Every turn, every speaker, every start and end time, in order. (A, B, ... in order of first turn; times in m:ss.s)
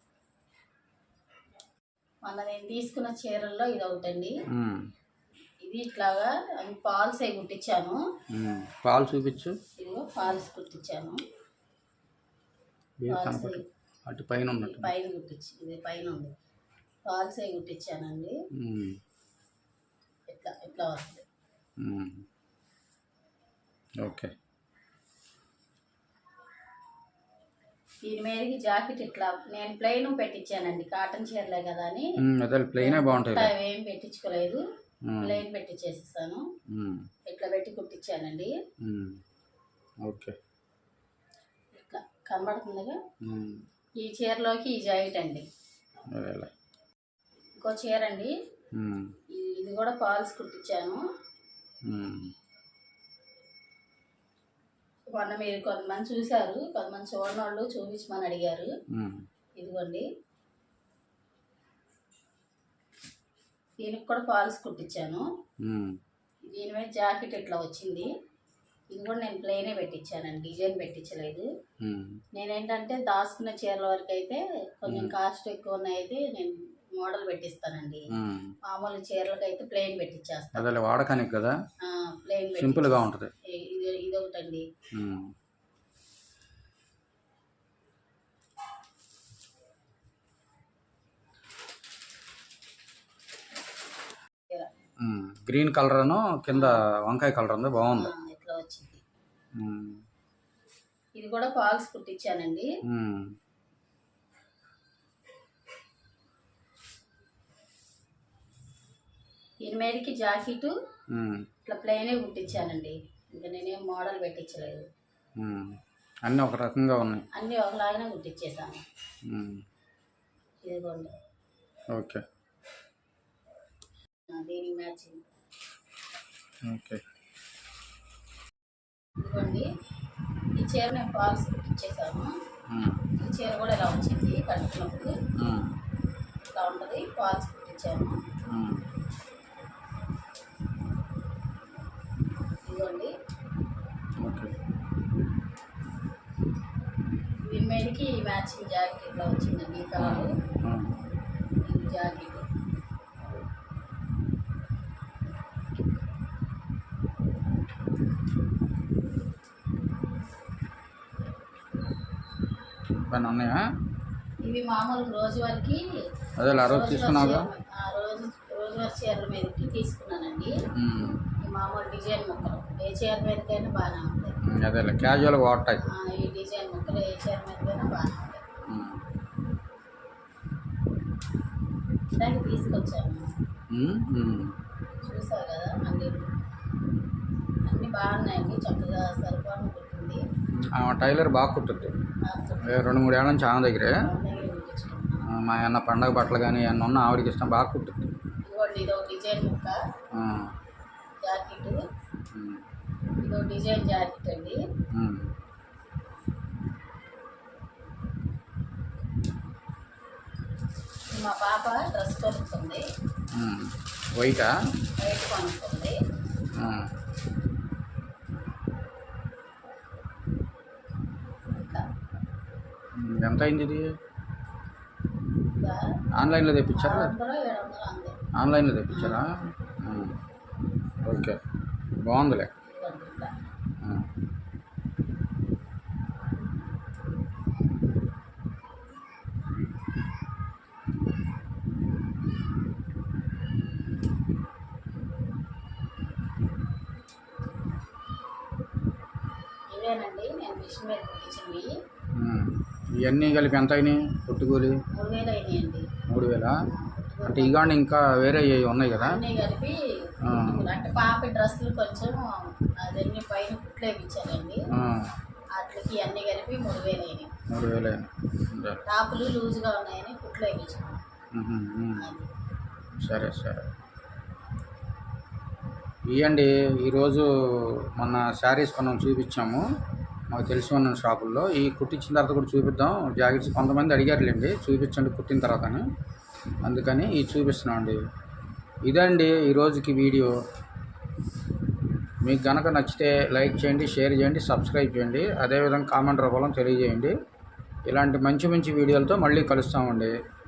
0:02.2-0:04.4 A
0:04.5-0:04.9 B
0:05.6-0:08.0 A
0:08.3-0:09.6 B
0:09.8-0:11.2 A
0:13.0-0:14.9 B
0:13.1-0:13.6 A
0:14.5-0:16.3 A
0:17.0-0:18.4 A
0:18.6-0:19.0 B
0:20.3-0:21.2 A
0:21.8-0:22.2 B
0:24.0-0:24.3 B
0:28.0-0:32.1 A
0:32.2-0:33.5 B
0:32.8-0:34.6 A
0:35.1-0:35.4 B
0:35.2-0:36.4 A
0:36.7-0:37.1 B
0:37.2-0:38.5 A
0:38.8-0:39.2 B
0:40.0-0:40.4 B
0:41.7-0:43.0 A
0:43.2-0:43.6 B
0:44.0-0:45.5 A
0:46.1-0:46.5 B
0:47.6-0:48.3 A
0:48.7-0:49.2 B
0:49.3-0:51.0 A
0:51.8-0:52.3 B
0:55.1-0:58.7 A
0:58.9-0:59.2 B
0:59.6-1:00.1 A
1:03.8-1:05.3 A
1:05.6-1:06.0 B
1:06.5-1:08.1 A
1:08.9-1:11.5 A
1:11.8-1:12.2 B
1:12.3-1:18.0 A
1:14.9-1:15.2 B
1:18.1-1:18.5 B
1:18.6-1:20.7 A
1:20.5-1:21.6 B
1:21.8-1:24.7 A
1:22.6-1:23.3 B
1:24.9-1:25.3 B
1:35.0-1:38.1 B
1:36.5-1:36.8 A
1:37.9-1:39.0 A
1:39.6-1:40.0 B
1:41.2-1:42.7 A
1:42.9-1:43.3 B
1:49.6-1:50.7 A
1:51.1-1:51.5 B
1:51.6-1:54.9 A
1:55.4-1:57.3 B
1:57.3-1:58.8 A
1:59.2-1:59.6 B
2:00.6-2:01.1 A
2:01.9-2:02.2 B
2:04.3-2:05.2 A
2:06.6-2:07.0 B
2:09.2-2:09.7 A
2:10.6-2:12.4 A
2:12.7-2:13.1 B
2:13.1-2:15.2 A
2:15.4-2:15.8 B
2:16.5-2:18.3 A
2:18.5-2:18.9 B
2:22.6-2:23.1 A
2:24.2-2:24.5 B
2:27.4-2:30.4 A
2:30.0-2:31.0 B
2:31.6-2:32.4 A
2:43.0-2:43.6 B
2:44.4-2:45.8 A
2:46.4-2:47.5 B
2:46.5-2:50.5 A
2:50.7-2:51.2 B
2:51.4-2:54.4 A
2:54.4-2:55.8 B
2:55.8-2:58.4 A
2:58.7-2:59.0 B
3:02.2-3:03.4 A
3:03.7-3:04.6 B
3:05.0-3:06.3 A
3:07.6-3:10.2 A
3:10.5-3:12.0 B
3:12.2-3:13.0 A
3:12.6-3:14.0 B
3:13.9-3:15.3 A
3:15.3-3:18.1 B
3:18.4-3:19.8 A
3:20.1-3:20.5 B
3:21.2-3:21.8 A
3:22.3-3:22.6 B
3:23.2-3:24.6 A
3:24.9-3:25.3 B
3:31.1-3:32.9 A
3:33.3-3:34.6 B
3:35.0-3:36.0 A
3:36.5-3:36.9 B
3:41.5-3:41.9 A
3:42.9-3:43.9 B
3:45.5-3:46.0 A
3:46.1-3:47.1 B
3:46.7-3:48.2 A
3:48.3-3:50.2 B
3:48.9-3:49.2 A
3:51.0-3:51.4 B
3:52.0-3:52.5 B
3:52.6-3:53.4 A
3:53.8-3:54.1 B
4:09.7-4:11.7 A
4:12.1-4:14.8 B
4:14.9-4:15.9 A
4:16.1-4:16.6 B
4:16.7-4:17.7 A
4:17.2-4:19.2 B
4:18.9-4:24.6 A
4:20.2-4:20.7 B
4:24.7-4:25.1 B
4:25.5-4:27.4 A
4:27.5-4:28.8 B
4:28.8-4:31.0 A
4:31.3-4:32.2 B
4:32.0-4:32.3 A
4:33.0-4:33.7 B
4:36.1-4:39.6 B
4:40.3-4:45.9 B
4:46.6-4:48.0 B
4:48.8-4:50.4 B
4:52.2-4:57.2 B
4:57.9-5:00.2 B